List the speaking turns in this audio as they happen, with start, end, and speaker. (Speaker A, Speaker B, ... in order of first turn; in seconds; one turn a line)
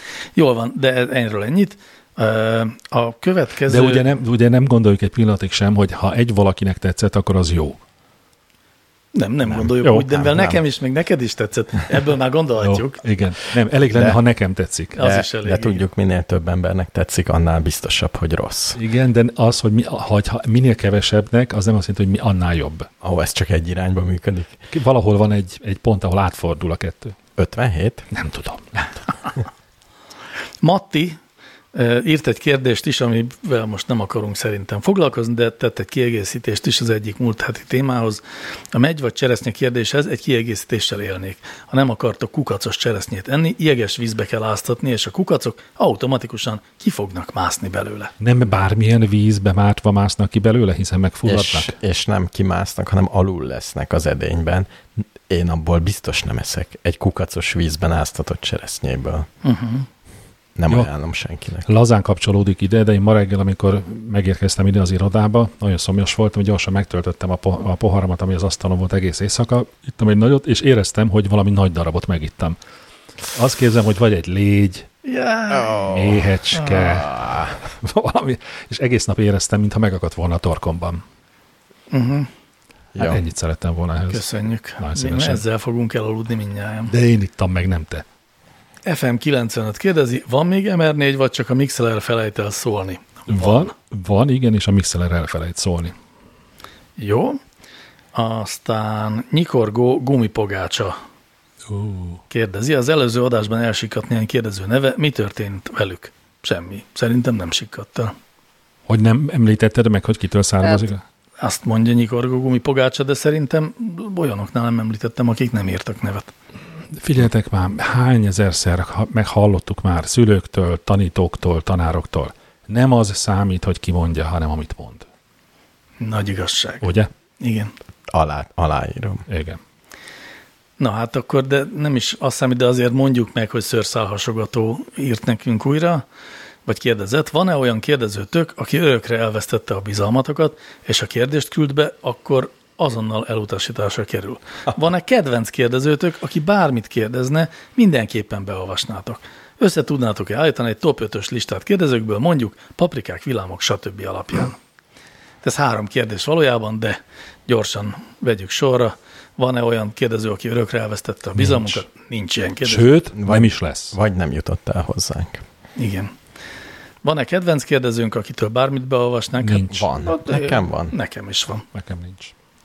Speaker A: 0.3-4.0
Speaker B: 3.7-7.8
Speaker A: 9.1-13.0
Speaker C: 9.4-10.6
Speaker B: 9.8-10.2
Speaker B: 12.6-14.9
Speaker C: 13.9-14.2
Speaker A: 14.9-15.8
Speaker C: 15.0-18.8
Speaker B: 18.8-22.9
Speaker C: 23.0-24.6
Speaker B: 24.7-27.1
Speaker C: 27.4-28.1
Speaker B: 28.1-28.9
Speaker A: 30.6-31.2
Speaker A: 31.7-48.1
Speaker B: 48.2-51.7
Speaker C: 51.2-59.3
Speaker A: 59.4-59.9
Speaker C: 60.6-61.7
Speaker B: 61.6-72.6
Speaker B: 73.3-74.9
Speaker A: 75.0-75.8
Speaker C: 75.5-77.6
Speaker B: 75.9-81.0
Speaker A: 81.9-82.3
Speaker C: 82.9-83.2
Speaker B: 83.0-84.2
Speaker A: 84.1-86.9
Speaker B: 84.8-85.4
Speaker B: 86.9-88.0
Speaker A: 88.8-93.7
Speaker B: 93.3-95.9
Speaker A: 97.0-97.4
Speaker A: 98.1-101.0
Speaker B: 101.7-102.2
Speaker A: 102.3-108.1
Speaker B: 108.9-111.0
Speaker A: 111.4-116.3
Speaker B: 116.9-125.0
Speaker A: 126.0-126.9
Speaker B: 126.8-127.1
Speaker A: 127.4-127.7
Speaker C: 128.1-129.2
Speaker B: 129.3-129.6
Speaker A: 130.8-136.0
Speaker A: 136.7-154.6
Speaker A: 155.4-162.9
Speaker B: 161.4-161.8
Speaker B: 162.6-163.9
Speaker C: 163.2-165.4
Speaker A: 165.8-166.1
Speaker A: 167.0-171.6
Speaker B: 169.4-169.9
Speaker C: 169.7-170.9
Speaker B: 171.7-172.3